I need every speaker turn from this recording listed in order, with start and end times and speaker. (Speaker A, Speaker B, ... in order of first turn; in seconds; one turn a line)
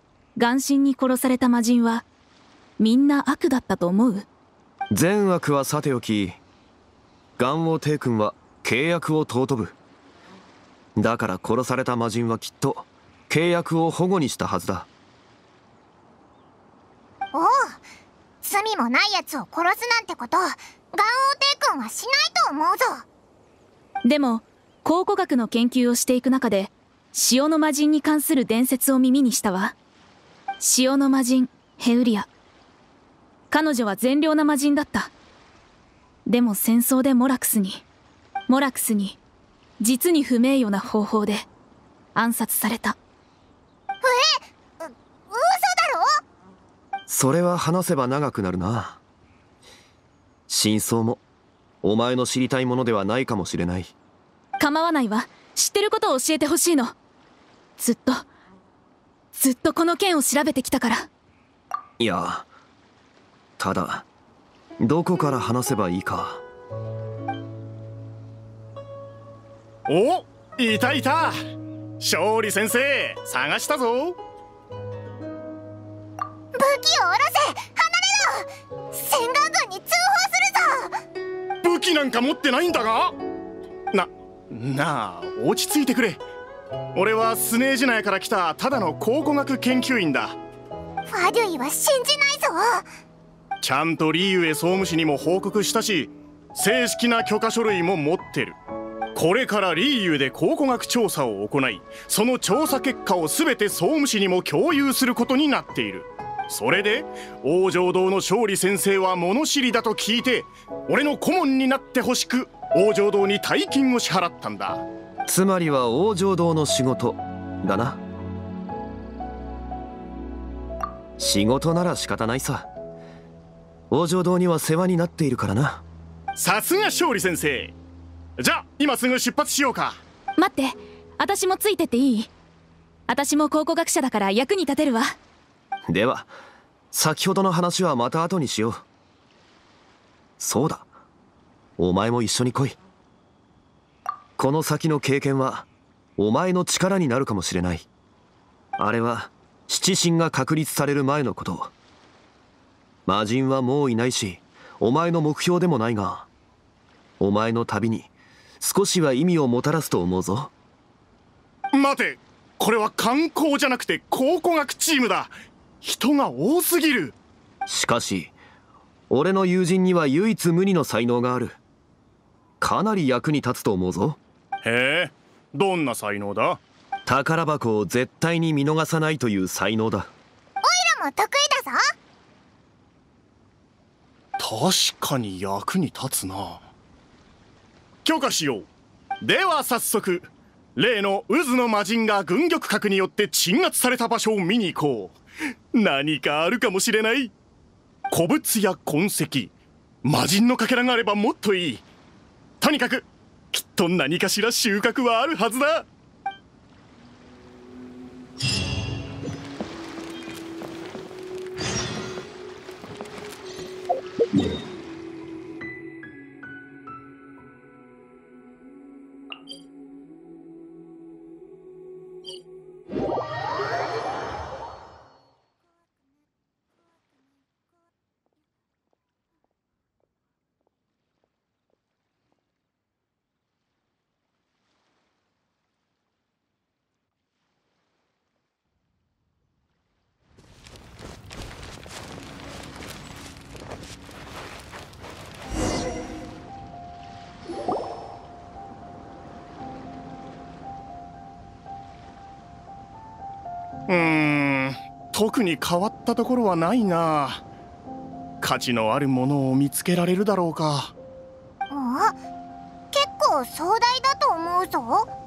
Speaker A: 0.3-2.0
Speaker A: 2.8-4.3
Speaker B: 4.9-6.4
Speaker B: 7.4-9.8
Speaker B: 11.0-14.9
Speaker C: 17.3-17.8
Speaker C: 18.4-23.0
Speaker A: 24.0-29.8
Speaker A: 30.6-32.3
Speaker A: 33.5-35.1
Speaker A: 36.2-37.8
Speaker A: 38.5-39.2
Speaker A: 39.8-41.5
Speaker A: 42.1-43.0
Speaker C: 44.0-46.2
Speaker B: 47.1-49.0
Speaker B: 50.5-51.2
Speaker B: 51.8-53.9
Speaker A: 54.6-56.9
Speaker A: 57.8-58.2
Speaker A: 59.3-61.1
Speaker B: 62.0-62.5
Speaker B: 63.6-64.1
Speaker B: 64.8-66.4
Speaker D: 69.9-71.3
Speaker D: 72.0-74.2
Speaker C: 76.5-80.9
Speaker D: 81.6-83.2
Speaker D: 83.9-86.2
Speaker D: 86.9-90.4
Speaker C: 91.1-92.9
Speaker D: 93.6-98.5
Speaker D: 99.1-114.8
Speaker B: 115.3-118.0
Speaker B: 121.2-122.7
Speaker B: 123.9-125.8
Speaker D: 126.3-127.8
Speaker D: 128.4-130.0
Speaker A: 130.4-132.3
Speaker A: 133.1-135.1
Speaker B: 135.9-136.3
Speaker B: 136.9-138.8
Speaker B: 140.4-140.9
Speaker B: 141.8-142.8
Speaker B: 144.4-147.9
Speaker B: 148.8-151.7
Speaker B: 153.1-156.3
Speaker B: 157.2-160.5
Speaker D: 161.7-167.2
Speaker B: 167.7-168.3
Speaker B: 169.1-171.6
Speaker B: 172.6-174.2
Speaker D: 174.6-176.6
Speaker B: 177.1-180.1
Speaker C: 180.6-181.8
Speaker D: 184.4-186.6
Speaker D: 188.0-188.7
Speaker D: 189.2-195.2
Speaker D: 195.7-197.3
Speaker D: 198.1-199.5
Speaker D: 200.0-201.8
Speaker D: 202.6-205.9
Speaker D: 253.9-257.4
Speaker D: 258.4-260.9
Speaker C: 261.7-262.2
Speaker C: 262.9-265.1